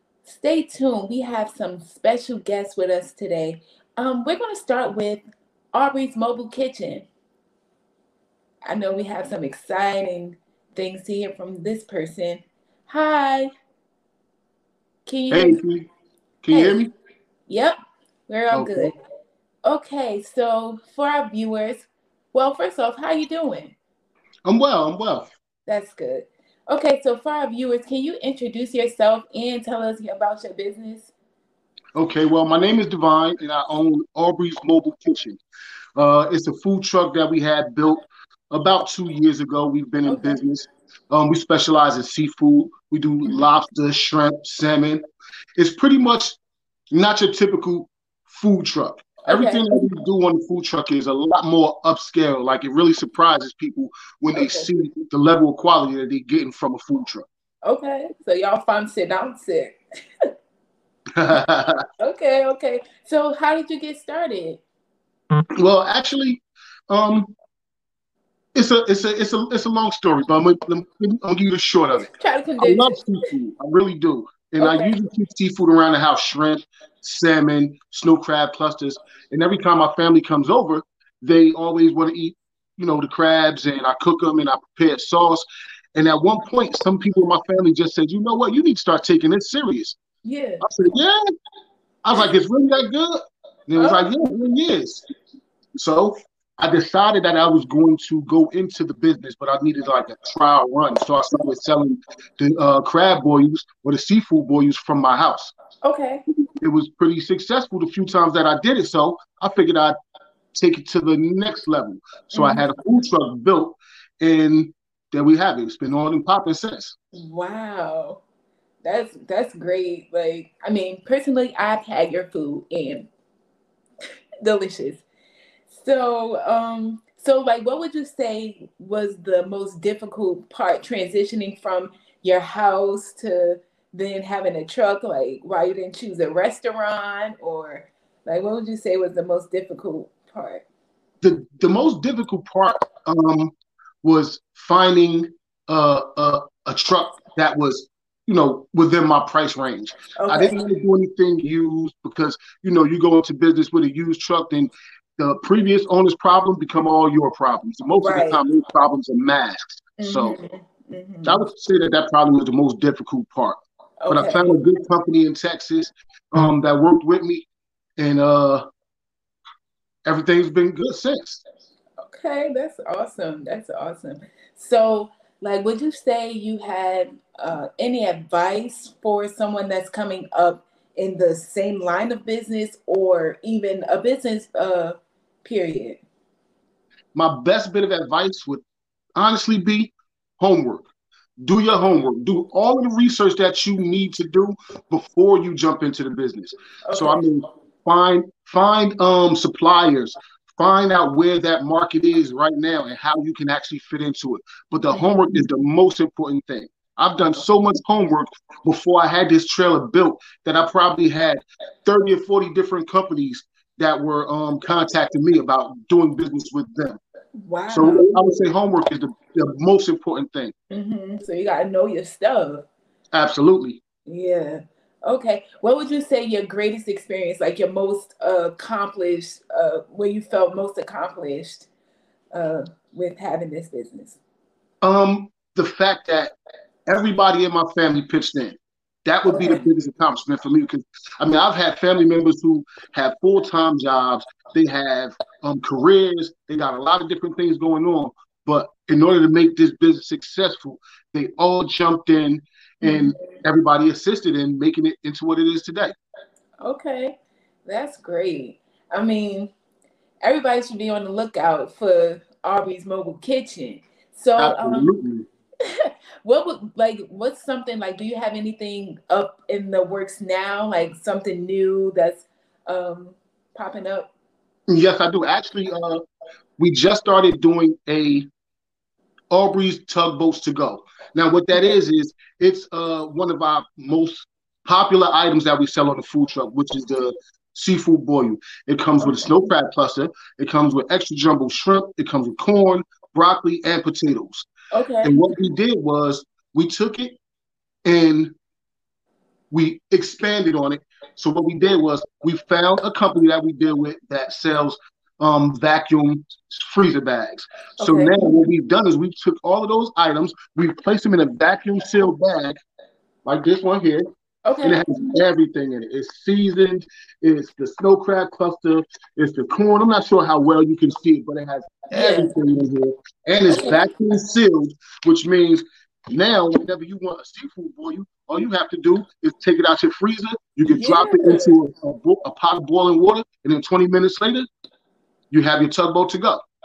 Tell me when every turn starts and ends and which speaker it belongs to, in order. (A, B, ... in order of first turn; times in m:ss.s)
0:00.2-0:05.2 A
0:05.7-0:07.0 A
0:08.6-0:13.5 A
0:15.0-0:15.6 A
0:15.3-0:15.9 B
0:16.4-0:16.9 B
0:16.5-0:16.8 A
0:17.5-0:17.8 A
0:18.3-0:18.9 A
0:18.5-0:18.9 B
0:19.6-0:23.8 A
0:24.4-0:25.3 B
0:25.7-0:31.1 A
0:31.9-0:35.4 B
0:36.0-0:45.0 B
0:40.0-0:40.4 A
0:45.6-0:46.4 B
0:46.9-0:57.2 B
0:49.3-0:49.7 A
0:54.3-0:54.7 A
0:57.6-0:59.8 A
1:01.2-1:01.8 B
1:02.0-1:04.6 A
1:05.6-1:07.3 B
1:08.5-1:30.0 B
1:12.0-1:13.1 A
1:14.6-1:15.0 A
1:30.2-1:30.6 A
1:30.6-1:31.2 B
1:32.0-1:35.0 B
1:33.8-1:34.1 A
1:35.7-1:45.5 B
1:45.8-1:46.2 A
1:46.6-1:49.9 B
1:50.5-1:57.0 B
1:52.3-1:52.7 A
1:57.1-1:58.2 A
1:58.8-2:03.1 A
2:04.4-2:05.0 A
2:05.7-2:20.6 A
2:21.2-2:40.4 B
2:30.1-2:30.6 A
2:38.0-2:38.4 A
2:40.0-2:41.4 A
2:41.2-2:47.5 B
2:44.0-2:44.6 A
2:48.0-2:48.6 B
2:50.0-2:51.4 B
2:52.0-3:06.0 A
3:07.1-3:08.6 B
3:09.2-3:37.0 B
3:16.8-3:17.2 A
3:24.9-3:25.2 A
3:37.4-3:38.3 A
3:37.7-3:40.5 B
3:40.7-3:42.6 A
3:43.1-3:43.8 B
3:44.0-3:51.7 A
3:52.3-3:54.2 A
3:54.8-3:56.3 B
3:56.9-4:15.9 B
3:59.3-3:59.6 A
4:12.8-4:13.1 A
4:16.6-4:19.5 A
4:20.2-4:24.9 A
4:24.4-4:25.3 B
4:25.6-4:34.1 A
4:34.7-4:36.0 B
4:36.6-4:38.3 B
4:39.3-4:54.5 B
4:49.0-4:49.3 A
4:54.7-4:55.2 A
4:55.0-4:57.2 B
4:57.8-4:58.3 B
4:59.5-5:12.6 B
5:07.8-5:08.2 A
5:13.2-5:14.0 B
5:14.4-5:14.8 A
5:14.6-5:34.5 B
5:21.9-5:22.3 A
5:23.5-5:23.8 A
5:30.6-5:31.5 A
5:35.3-5:36.4 B